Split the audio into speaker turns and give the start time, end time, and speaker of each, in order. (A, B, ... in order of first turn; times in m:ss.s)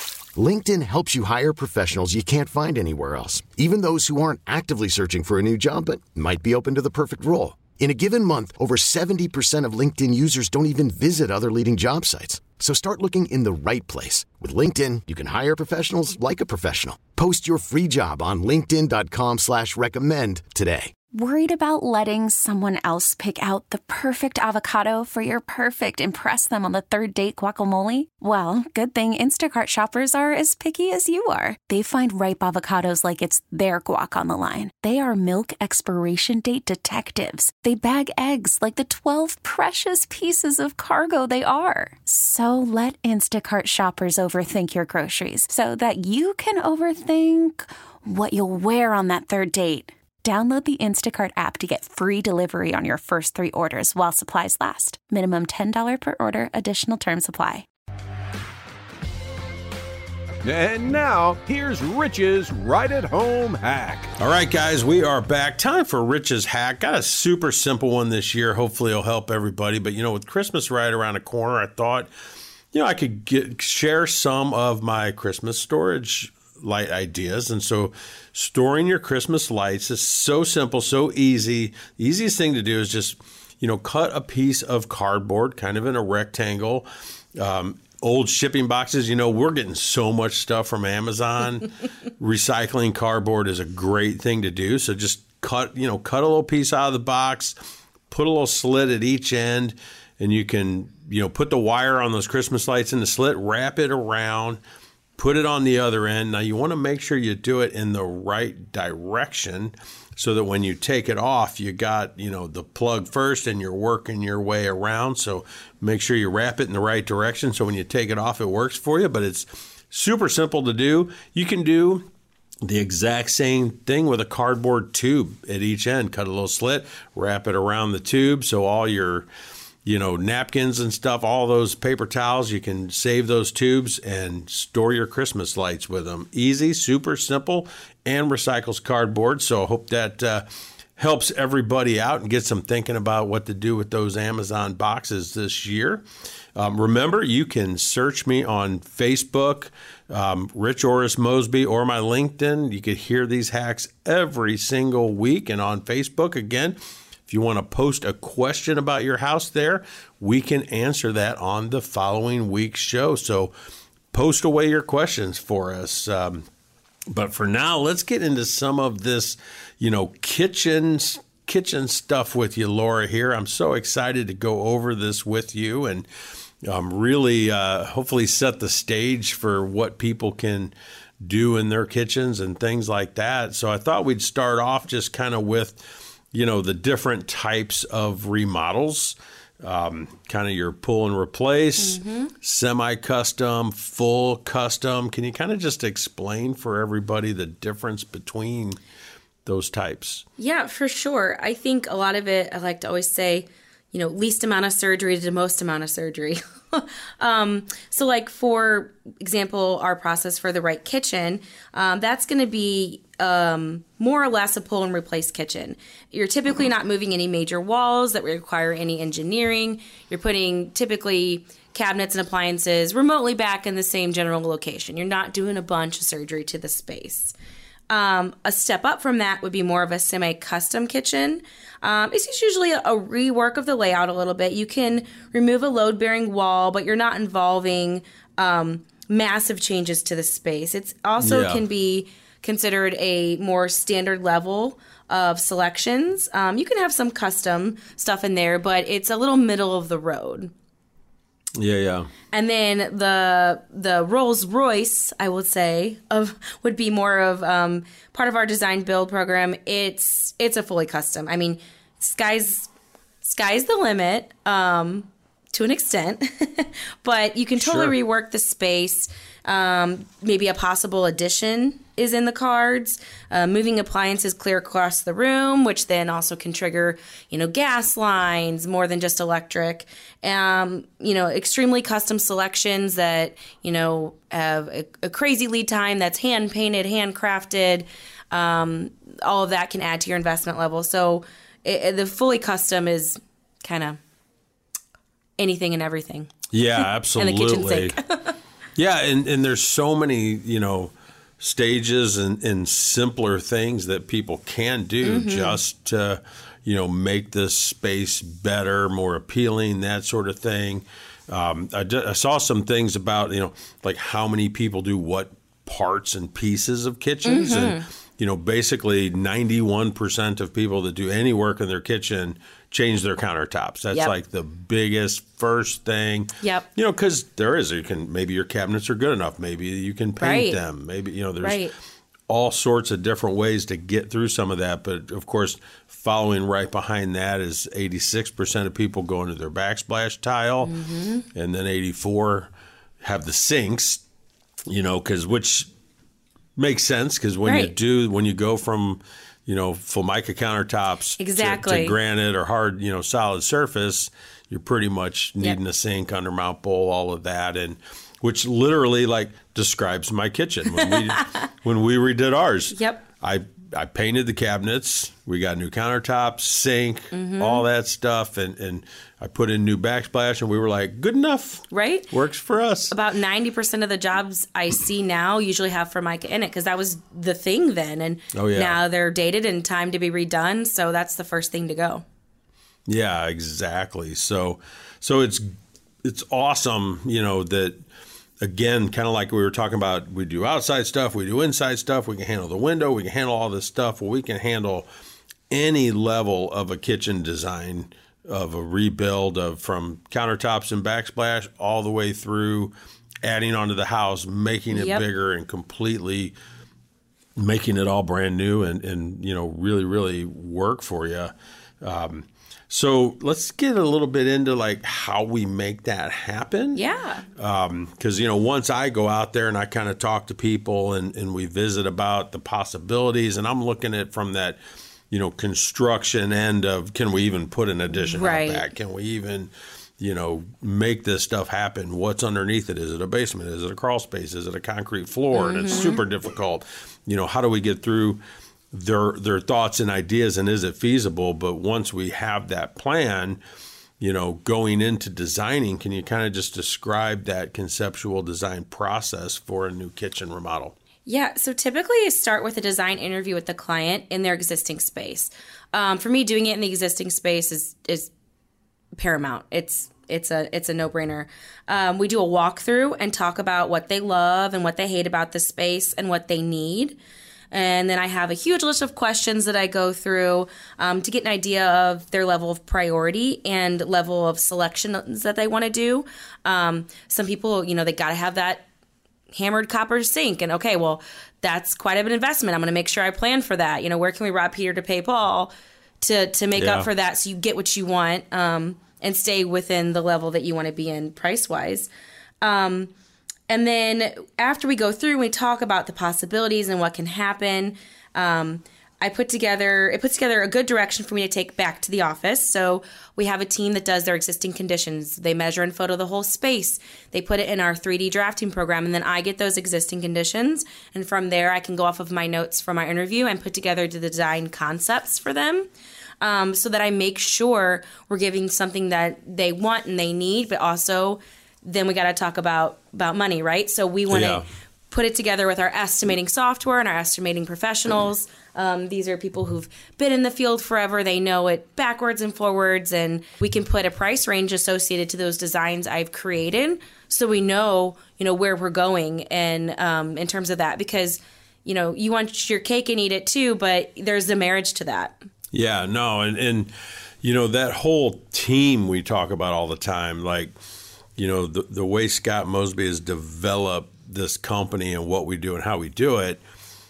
0:00.4-0:20.9 A
0:21.1-0:57.6 B
1:00.4-1:04.1 C
1:04.2-1:12.1 D
1:12.7-1:37.6 D
1:38.1-1:44.6 D
1:45.2-2:02.0 D
2:02.6-2:09.3 D
2:09.8-2:20.4 D
2:21.0-2:26.0 D
2:26.5-2:43.5 D
2:44.1-2:46.4 D
2:47.1-2:56.1 D
2:56.6-3:05.8 D
3:06.3-3:18.8 D
3:11.8-3:12.3 E
3:19.4-3:20.2 D
3:20.4-3:47.3 E
3:47.9-4:10.5 E
4:01.2-4:01.6 D
4:11.6-4:12.1 D
4:12.3-4:22.7 E
4:23.2-4:54.0 E
4:27.6-4:27.9 D
4:55.4-4:56.3 E
4:56.5-4:58.0 D
4:57.2-4:58.4 E
4:58.8-5:31.7 D
5:05.0-5:05.6 E
5:17.2-5:17.8 E
5:26.4-5:26.6 E
5:30.2-5:30.6 E
5:31.4-5:31.7 E
5:32.3-5:40.7 D
5:40.6-5:41.2 E
5:41.3-5:42.5 D
5:43.0-5:44.0 D
5:44.7-5:45.7 D
5:46.6-6:12.9 D
5:47.4-5:47.7 E
5:51.2-5:52.0 E
6:00.8-6:01.4 E
6:02.7-6:03.0 E
6:07.1-6:07.6 E
6:11.7-6:12.1 E
6:12.9-6:22.0 E
6:18.3-6:18.8 D
6:22.9-6:25.5 D
6:26.0-6:27.8 D
6:28.4-6:34.9 D
6:35.5-6:42.7 D
6:43.2-6:46.3 D
6:44.7-6:45.0 E
6:47.4-6:56.8 D
6:56.7-6:57.2 E
6:57.4-7:04.6 D
7:05.1-7:18.2 D
7:08.0-7:08.7 E
7:15.3-7:16.0 E
7:18.7-7:23.4 D
7:24.0-7:30.7 D
7:31.0-7:38.1 E
7:39.0-7:47.0 E
7:47.5-7:58.6 E
7:59.3-8:11.9 E
8:06.6-8:06.9 D
8:12.4-8:12.9 E
8:13.5-8:35.7 E
8:36.2-9:05.2 E
8:44.1-8:44.4 D
9:05.5-9:10.5 D
9:11.2-9:16.4 D